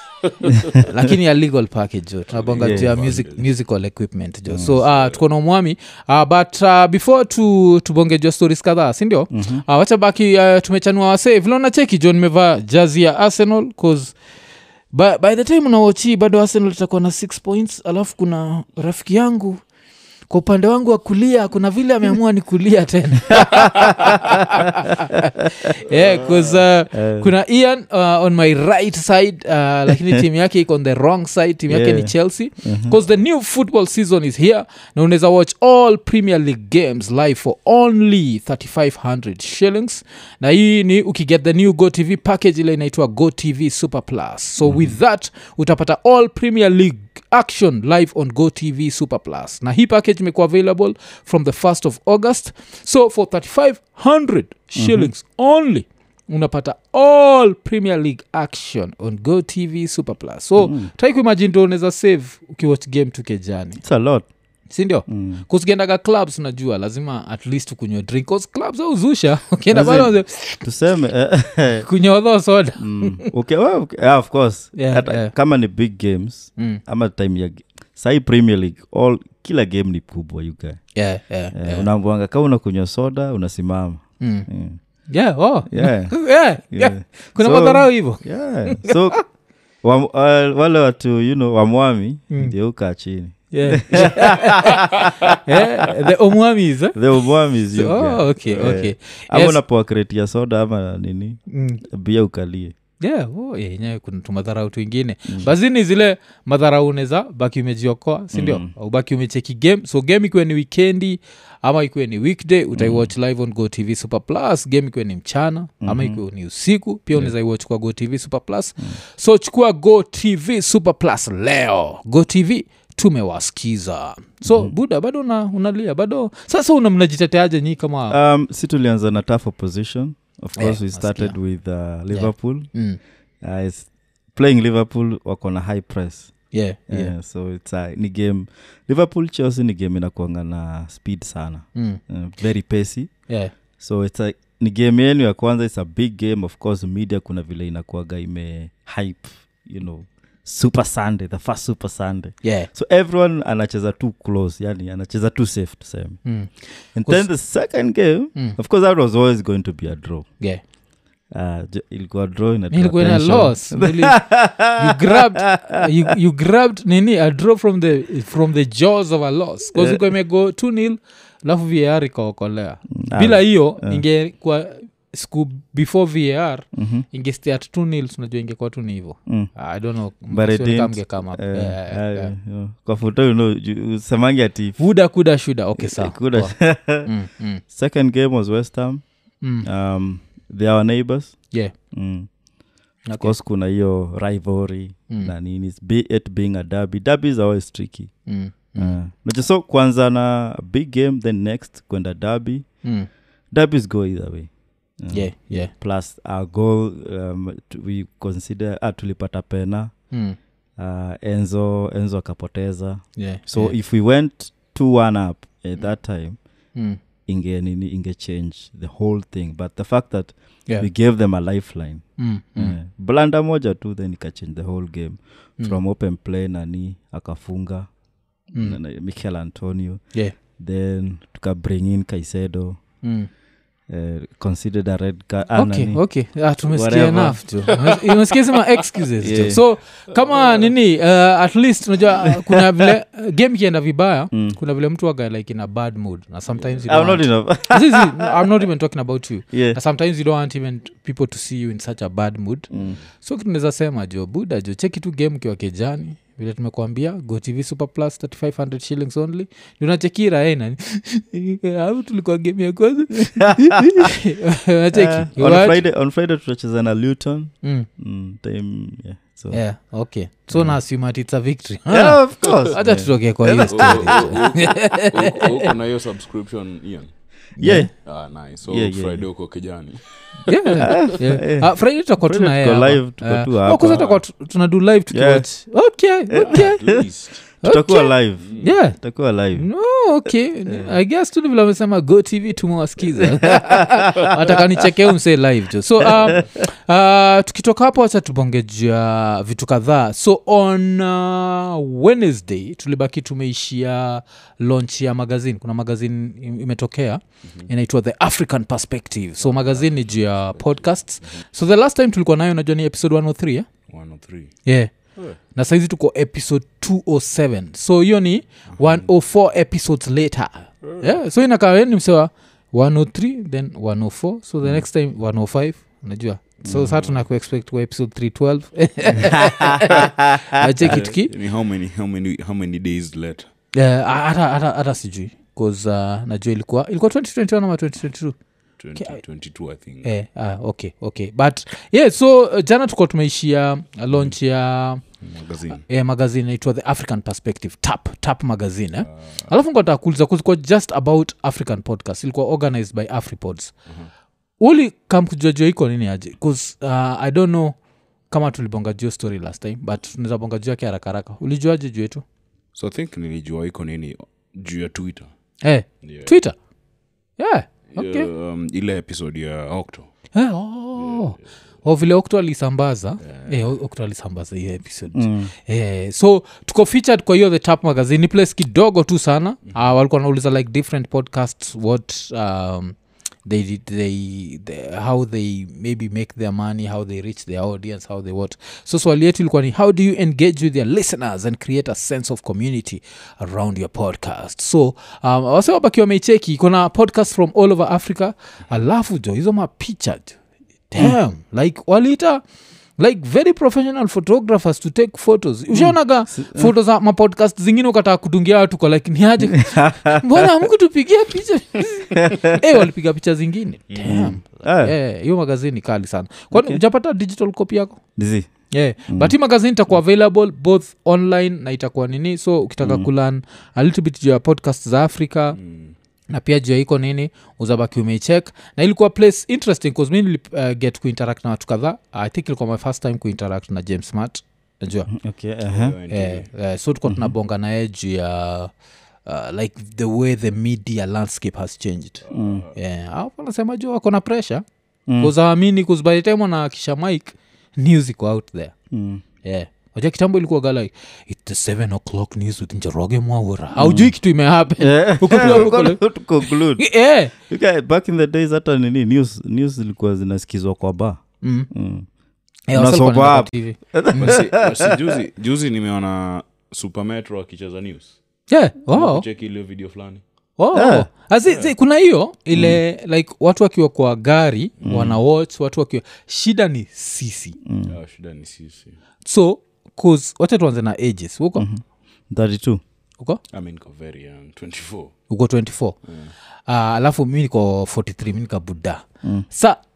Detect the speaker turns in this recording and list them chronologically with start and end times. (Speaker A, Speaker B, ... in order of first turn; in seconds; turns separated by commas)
Speaker A: 0.5-14.2, Speaker B: 2.3-3.5, Speaker C: 2.6-2.9, Speaker C: 4.5-4.7, Speaker B: 4.8-5.2, Speaker C: 9.3-9.6, Speaker A: 14.9-19.6, Speaker A: 20.3-63.8, Speaker C: 23.6-23.9, Speaker B: 25.9-26.6, Speaker C: 26.9-27.3, Speaker C: 31.7-32.9, Speaker C: 44.6-45.0, Speaker C: 54.8-55.1, Speaker C: 60.6-60.9, Speaker C: 63.8-64.3, Speaker A: 64.7-70.6, Speaker C: 65.1-65.4, Speaker C: 69.7-71.9, Speaker A: 71.8-73.3, Speaker C: 72.8-80.8, Speaker A: 74.8-75.3, Speaker A: 80.9-81.9, Speaker C: 81.5-84.8, Speaker A: 84.2-84.5, Speaker A: 85.0-89.2, Speaker C: 85.7-89.2, Speaker C: 89.8-95.3, Speaker A: 93.5-99.6, Speaker C: 96.9-102.7, Speaker A: 101.5-101.8, Speaker A: 103.0-128.2, Speaker C: 108.3-108.7, Speaker C: 112.8-113.1, Speaker C: 115.8-116.2, Speaker C: 124.5-124.7, Speaker C: 128.1-132.7, Speaker A: 130.6-131.4, Speaker A: 132.1-133.0, Speaker C: 133.4-156.2, Speaker A: 136.5-137.1, Speaker A: 141.7-142.0, Speaker A: 152.4-152.7, Speaker A: 156.2-157.3, Speaker C: 156.9-160.3, Speaker C: 161.3-165.8, Speaker A: 162.7-182.3, Speaker C: 169.7-170.0, Speaker C: 172.9-174.0, Speaker C: 176.7-177.1, Speaker C: 180.3-184.8, Speaker A: 184.8-187.6, Speaker C: 185.8-187.1, Speaker C: 187.7-189.0, Speaker C: 189.6-192.3, Speaker A: 193.1-193.3, Speaker C: 193.2-198.1, Speaker A: 198.2-199.0, Speaker C: 198.8-202.8, Speaker A: 202.8-203.1, Speaker C: 203.5-209.9, Speaker A: 205.1-205.7, Speaker A: 210.1-210.4, Speaker C: 210.8-216.4, Speaker A: 213.2-213.7, Speaker C: 217.3-227.9, Speaker A: 222.2-222.8, Speaker A: 228.5-228.8, Speaker C: 228.6-230.0, Speaker C: 230.6-232.8, Speaker A: 233.0-233.3, Speaker C: 233.9-236.0, Speaker A: 235.6-265.8, Speaker C: 236.7-237.4, Speaker C: 239.2-239.6, Speaker C: 242.2-242.6, Speaker C: 244.3-244.6, Speaker B: 246.5-246.9, Speaker C: 246.8-248.4, Speaker C: 249.5-249.8, Speaker C: 252.7-253.0, Speaker B: 252.8-253.1, Speaker C: 263.4-264.1, Speaker C: 264.9-269.6, Speaker A: 267.6-267.9, Speaker A: 269.5-275.6, Speaker C: 270.5-270.8, Speaker C: 271.9-274.4, Speaker B: 273.7-277.2, Speaker A: 277.6-277.9, Speaker C: 277.6-277.9, Speaker B: 278.0-281.1, Speaker C: 278.6-279.3, Speaker A: 280.4-287.0, Speaker C: 280.8-284.2, Speaker B: 283.8-284.2, Speaker C: 285.1-285.5, Speaker C: 286.3-287.0, Speaker B: 286.4-287.4, Speaker A: 287.6-289.0, Speaker C: 287.6-289.7, Speaker B: 288.4-288.7, Speaker A: 289.5-313.7, Speaker C: 290.7-291.0, Speaker C: 293.2-294.4, Speaker C: 296.0-296.5, Speaker B: 309.4-311.4, Speaker B: 313.9-314.6, Speaker A: 314.6-331.3, Speaker B: 318.7-319.1, Speaker B: 320.8-321.1, Speaker C: 326.6-326.9, Speaker C: 329.2-330.4, Speaker B: 330.8-333.5, Speaker A: 333.7-338.4, Speaker B: 338.8-340.1, Speaker A: 340.0-345.0, Speaker B: 345.2-345.8, Speaker A: 345.7-353.7, Speaker B: 349.1-349.5, Speaker A: 354.6-357.8, Speaker A: 358.3-362.2, Speaker B: 362.7-365.3, Speaker A: 365.6-366.5, Speaker B: 366.0-366.3, Speaker A: 367.4-368.3, Speaker B: 367.9-370.1, Speaker A: 370.3-400.4, Speaker B: 371.0-371.4, Speaker B: 373.2-373.7, Speaker C: 375.1-375.5, Speaker A: 400.9-402.4, Speaker A: 403.0-418.0, Speaker C: 405.7-406.7, Speaker C: 409.7-410.2, Speaker C: 412.1-412.6, Speaker B: 413.9-414.2, Speaker C: 414.0-414.9, Speaker C: 416.5-416.8, Speaker C: 418.2-418.5, Speaker A: 418.7-425.6, Speaker C: 419.1-419.3, Speaker B: 425.6-425.9, Speaker A: 426.3-435.1, Speaker C: 435.1-436.0, Speaker B: 435.7-436.5, Speaker A: 436.1-438.7, Speaker C: 437.1-437.3, Speaker A: 439.2-444.6, Speaker B: 442.2-442.8, Speaker C: 442.3-442.6, Speaker C: 445.1-445.3, Speaker A: 445.2-448.7, Speaker C: 448.9-449.2, Speaker A: 449.4-457.3, Speaker C: 453.8-454.1, Speaker C: 454.8-456.9, Speaker C: 457.5-462.1, Speaker A: 461.4-461.7, Speaker A: 462.7-464.4, Speaker C: 462.7-465.2, Speaker B: 464.2-468.2, Speaker A: 468.5-469.2, Speaker B: 468.9-470.2, Speaker A: 470.6-477.6, Speaker C: 470.7-471.1, Speaker B: 471.5-471.7, Speaker C: 472.5-472.8, Speaker C: 474.9-475.2, Speaker C: 477.6-477.9, Speaker B: 477.9-479.0, Speaker A: 479.2-481.6, Speaker C: 481.6-482.8, Speaker B: 483.5-485.1, Speaker A: 485.3-486.0, Speaker B: 486.1-486.3, Speaker A: 486.7-489.8